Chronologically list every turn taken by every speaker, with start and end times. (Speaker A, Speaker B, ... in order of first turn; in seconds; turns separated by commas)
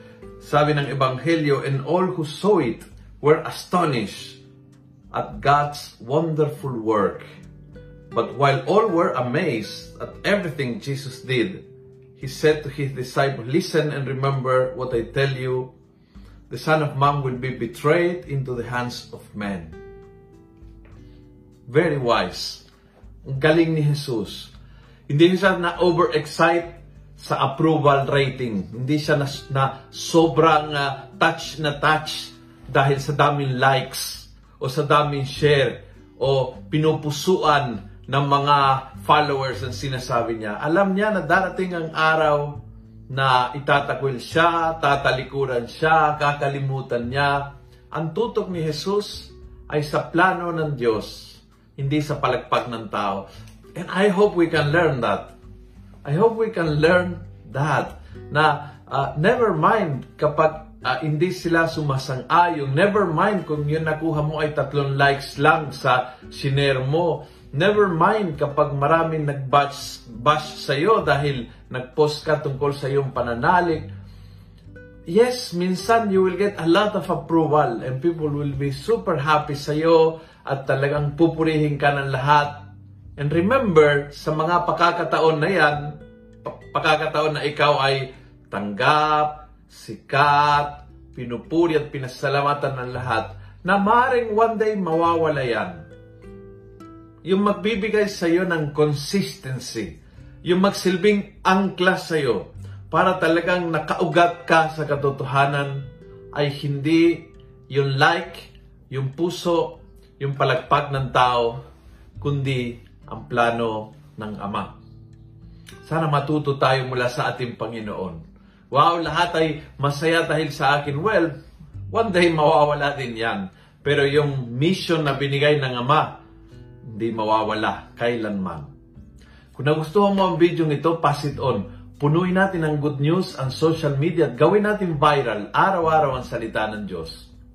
Speaker A: 0.4-4.4, Speaker A: 5.1-7.2, Speaker A: 8.1-11.6, Speaker A: 12.2-15.7, Speaker A: 16.5-19.8, Speaker A: 21.7-22.6, Speaker A: 23.2-24.5, Speaker A: 25.1-42.6, Speaker A: 43.1-55.3, Speaker A: 56.0-73.9, Speaker A: 75.1-82.7, Speaker A: 83.2-95.8, Speaker A: 97.2-111.6, Speaker A: 112.2-114.7, Speaker A: 115.8-121.4, Speaker A: 121.9-126.1, Speaker A: 126.8-128.7, Speaker A: 129.5-137.3